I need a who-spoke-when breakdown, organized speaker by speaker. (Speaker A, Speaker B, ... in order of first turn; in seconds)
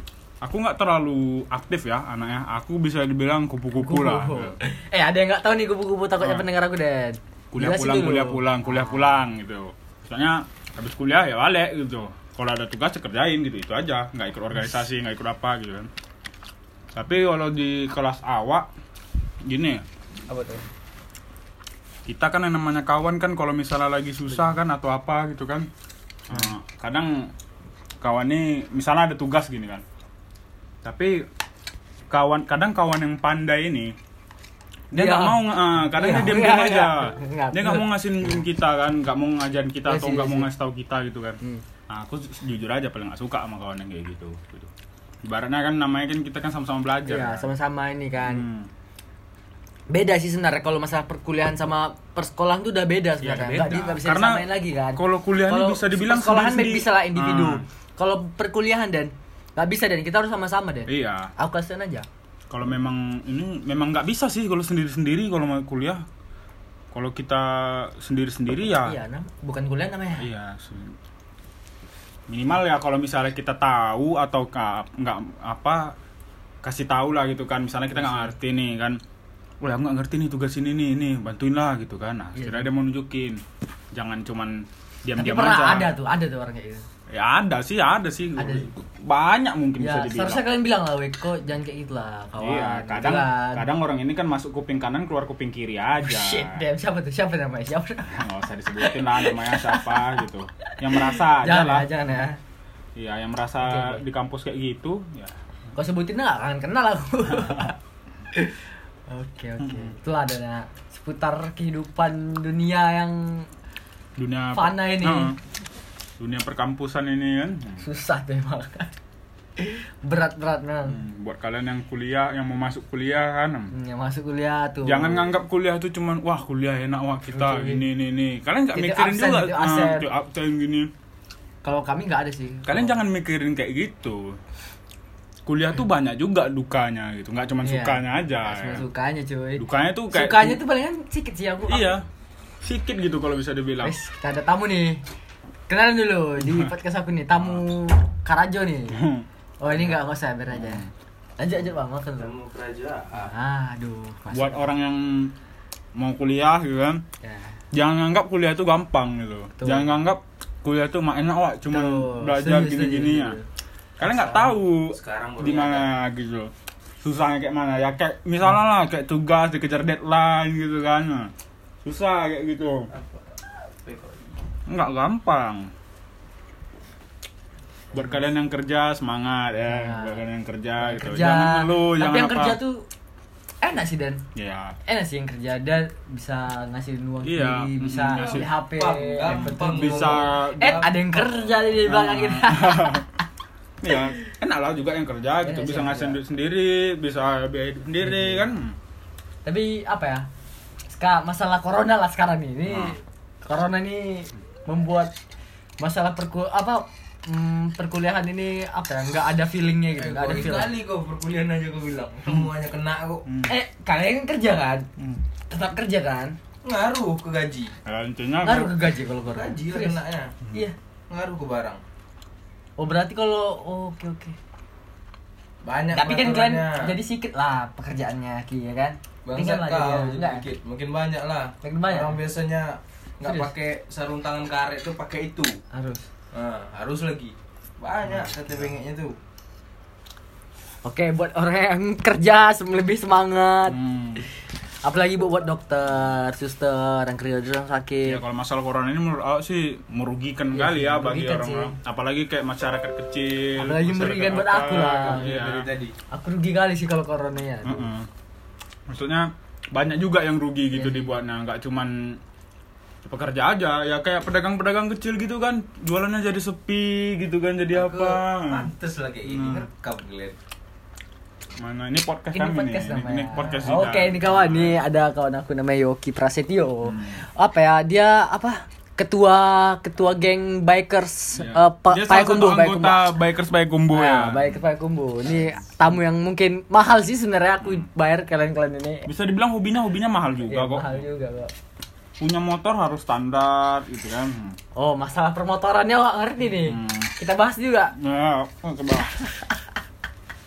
Speaker A: 0.4-4.6, 6.2-6.5, 7.5-15.9, 16.9-18.7, 19.4-19.9, 22.1-25.7, 26.3-27.3, 28.0-29.8, 30.8-31.3, 32.1-34.0, 34.9-44.7, 45.2-47.5, 48.2-48.7, 53.2-57.6, 60.9-61.3, 62.5-66.0, 66.9-69.0, 70.2-71.0, 72.3-76.0, 76.6-79.0, 79.6-83.4, 83.9-85.9, 87.1-90.4, 92.4-96.6, 98.1-101.9, 103.0-105.4, 107.3-107.7, 109.6-109.9, 114.2-115.4, 116.2-117.8, 120.9-123.7, 124.8-130.9, 132.7-134.4, 135.5-138.8, 139.6-140.6, 141.7-142.1, 142.6-143.9, 146.4-146.7, 148.9-149.3, 150.5-150.9, 154.3-155.3, 156.0-157.0, 157.7-163.4, 164.0-171.3, 171.8-172.9, 174.7-175.7, 177.9-182.6, 184.3-184.8, 187.2-188.5, 189.3-190.9, 191.8-193.1, 193.8-198.8, 202.7-203.0, 213.3-213.5, 215.0-215.2, 217.8-218.8, 243.7-244.3, 248.1-255.7, 257.6-258.1, 258.9-262.2, 263.0-268.7, 269.3-269.7, 271.6-274.8, 276.9-277.2, 281.4-284.6, 287.6-287.9, 289.1-291.1, 292.2-294.6, 296.5-297.1, 297.9-299.1
Speaker B: 3.8-9.2, 20.3-20.6, 34.9-38.4, 39.9-40.5, 47.1-48.5, 49.9-62.1, 68.8-70.3, 77.9-78.3, 82.3-82.7, 85.2-86.8, 88.4-88.7, 89.8-93.7, 96.0-102.4, 103.6-104.0, 105.8-107.8, 108.3-113.5, 114.5-115.3, 117.8-118.9, 119.6-121.0, 123.7-125.3, 127.3-127.8, 128.7-130.1, 131.6-133.0, 137.6-142.0, 143.8-145.0, 145.7-149.1, 149.6-150.9, 151.4-152.3, 153.1-154.7, 157.2-157.6, 159.6-159.9, 161.7-163.5, 179.6-180.2, 180.8-182.9, 183.6-184.2, 184.9-193.1, 195.4-196.2, 198.0-198.5, 199.4-200.3, 200.9-205.1, 205.8-210.7, 213.5-214.9, 215.5-216.4, 218.4-220.8, 222.8-224.4, 225.9-230.4, 231.6-232.2, 233.2-233.5, 235.7-236.1, 238.1-238.3, 240.8-248.2, 250.5-251.7, 253.6-255.3, 256.1-257.9, 260.7-261.1, 272.3-283.1, 283.9-289.1, 290.4-291.5, 294.8-297.9, 299.1-299.6
Speaker C: 152.2-153.3, 164.1-165.9, 172.9-174.4, 188.2-191.2, 210.0-213.3, 216.6-217.7, 219.2-220.3, 221.1-221.8, 225.6-226.9, 229.2-235.6, 236.3-239.2, 254.9-255.9, 267.7-270.4